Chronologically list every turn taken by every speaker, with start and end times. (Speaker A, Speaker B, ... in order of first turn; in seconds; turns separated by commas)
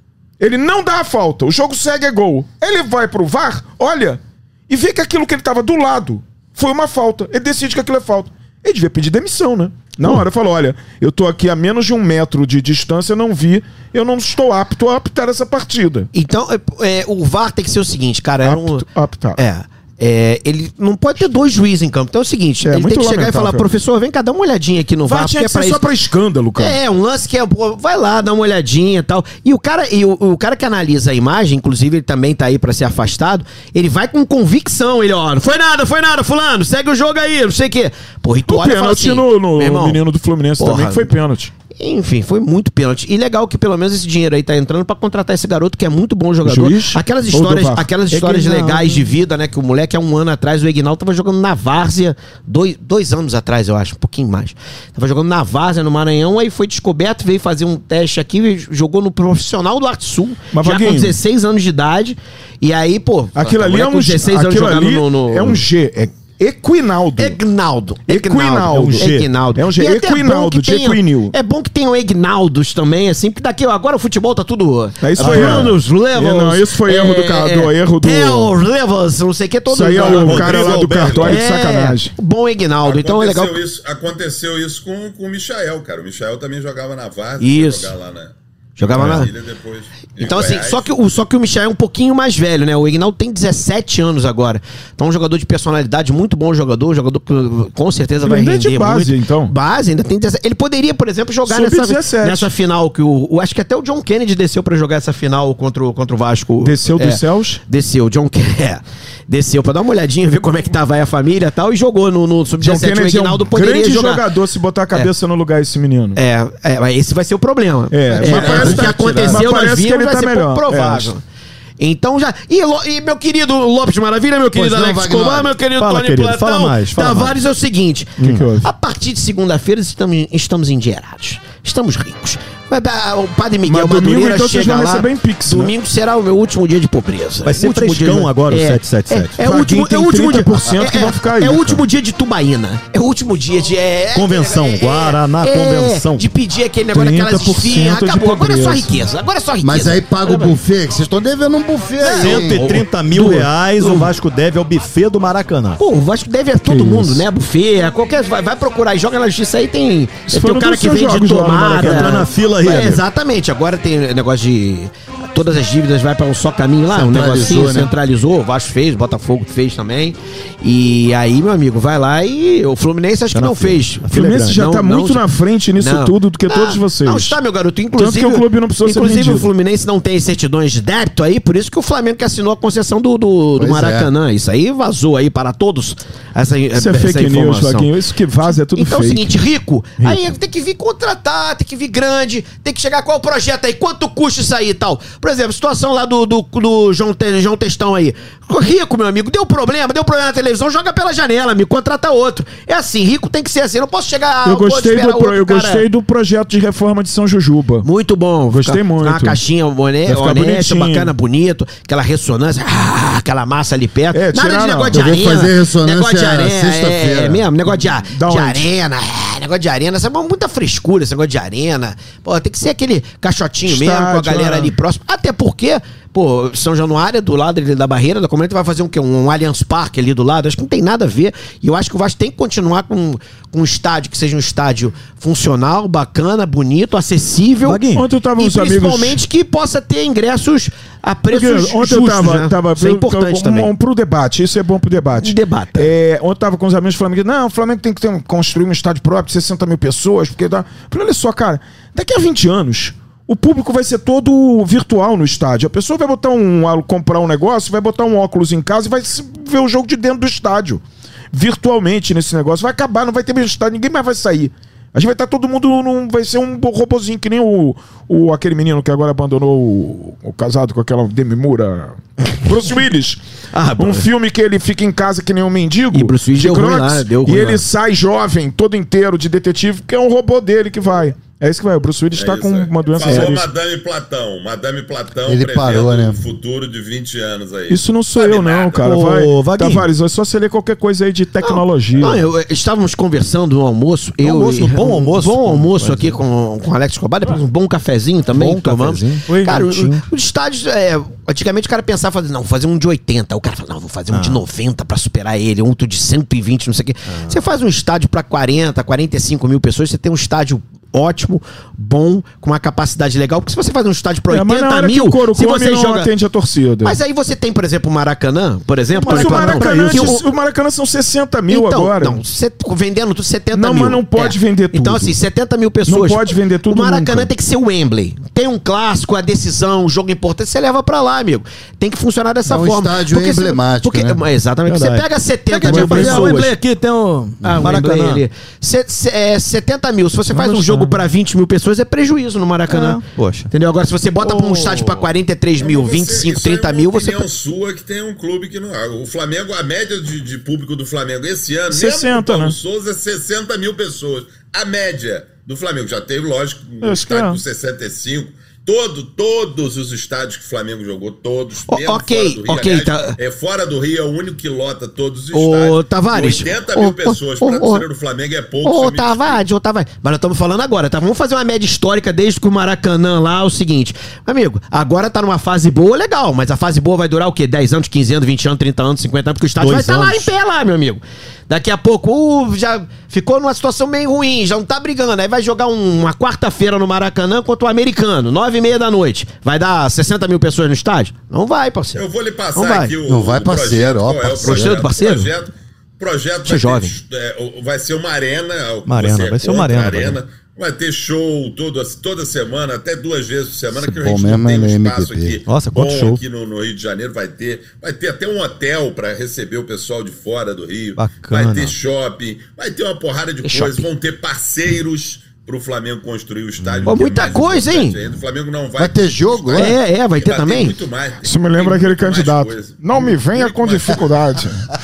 Speaker A: 0.4-16.1, Speaker B: 16.1-18.9, Speaker A: 18.4-19.4, Speaker B: 19.4-25.9, Speaker A: 22.6-23.7, Speaker A: 25.1-26.8, Speaker B: 26.6-40.0, Speaker A: 38.5-41.5, Speaker B: 40.6-41.1, Speaker B: 41.8-65.6, Speaker A: 46.4-48.4, Speaker A: 60.5-61.2, Speaker A: 63.4-67.4, Speaker B: 67.2-83.6, Speaker A: 68.1-71.3, Speaker C: 68.7-69.3, Speaker A: 75.0-78.5, Speaker C: 75.2-75.8, Speaker A: 79.7-82.1, Speaker C: 79.9-81.4, Speaker D: 82.8-90.9, Speaker B: 87.4-87.9, Speaker B: 88.8-89.3, Speaker B: 90.2-114.2, Speaker A: 98.2-99.5, Speaker A: 101.5-102.5, Speaker A: 106.6-107.6, Speaker A: 112.6-116.2, Speaker B: 116.2-121.2, Speaker A: 117.9-121.1, Speaker E: 118.1-119.5, Speaker B: 121.8-150.6, Speaker E: 124.5-125.6, Speaker C: 125.8-127.4, Speaker C: 128.2-128.5, Speaker A: 128.2-128.7, Speaker A: 133.7-135.7, Speaker C: 137.4-139.4, Speaker A: 139.4-141.8, Speaker C: 144.2-146.3, Speaker A: 146.9-149.1, Speaker E: 149.6-152.8, Speaker B: 152.0-154.1, Speaker C: 152.0-155.8, Speaker B: 155.8-175.2, Speaker A: 156.7-157.2, Speaker A: 160.3-162.3, Speaker C: 161.8-163.0, Speaker E: 166.9-167.9, Speaker C: 173.3-174.7, Speaker A: 174.1-177.4, Speaker B: 175.8-187.9, Speaker A: 178.0-179.5, Speaker E: 183.6-184.1, Speaker A: 186.8-189.4, Speaker B: 188.7-205.9, Speaker A: 204.4-207.9, Speaker B: 207.8-237.8, Speaker A: 208.5-209.4, Speaker A: 210.1-211.1, Speaker A: 214.1-215.0, Speaker E: 214.9-217.5, Speaker A: 217.7-218.7, Speaker A: 223.7-224.8, Speaker C: 237.6-238.1, Speaker A: 237.9-239.2, Speaker B: 238.4-243.7, Speaker A: 241.3-273.2, Speaker B: 245.2-245.9, Speaker B: 273.5-274.1, Speaker A: 273.8-283.5, Speaker B: 275.9-277.6, Speaker D: 282.1-288.9, Speaker B: 283.1-283.4, Speaker E: 285.3-286.2, Speaker A: 287.7-292.2, Speaker C: 288.8-289.9, Speaker B: 291.4-316.1, Speaker C: 294.2-296.2, Speaker C: 298.3-300.1, Speaker C: 304.1-304.4, Speaker C: 307.1-307.4, Speaker A: 314.3-317.0, Speaker B: 316.8-320.2, Speaker C: 319.0-320.2, Speaker A: 319.1-322.2, Speaker B: 321.5-336.6, Speaker A: 323.5-325.2, Speaker A: 325.9-327.3, Speaker E: 332.5-334.2, Speaker C: 334.7-338.2, Speaker A: 335.6-336.4, Speaker B: 337.4-347.2, Speaker A: 340.3-341.0, Speaker C: 342.7-343.5, Speaker C: 344.2-345.1, Speaker D: 345.6-369.4, Speaker A: 351.7-352.6, Speaker A: 356.8-357.4, Speaker B: 361.7-363.2, Speaker B: 365.3-367.9, Speaker B: 368.6-392.9, Speaker C: 379.6-380.3, Speaker D: 392.0-424.1, Speaker E: 393.1-394.8, Speaker B: 394.4-395.3, Speaker B: 396.4-396.9, Speaker C: 398.9-400.2, Speaker E: 403.9-405.4, Speaker C: 405.5-406.2, Speaker C: 411.0-411.7, Speaker B: 413.4-413.9, Speaker C: 416.7-417.0, Speaker B: 416.9-418.0, Speaker E: 418.8-419.8, Speaker B: 419.6-420.8, Speaker A: 421.2-424.7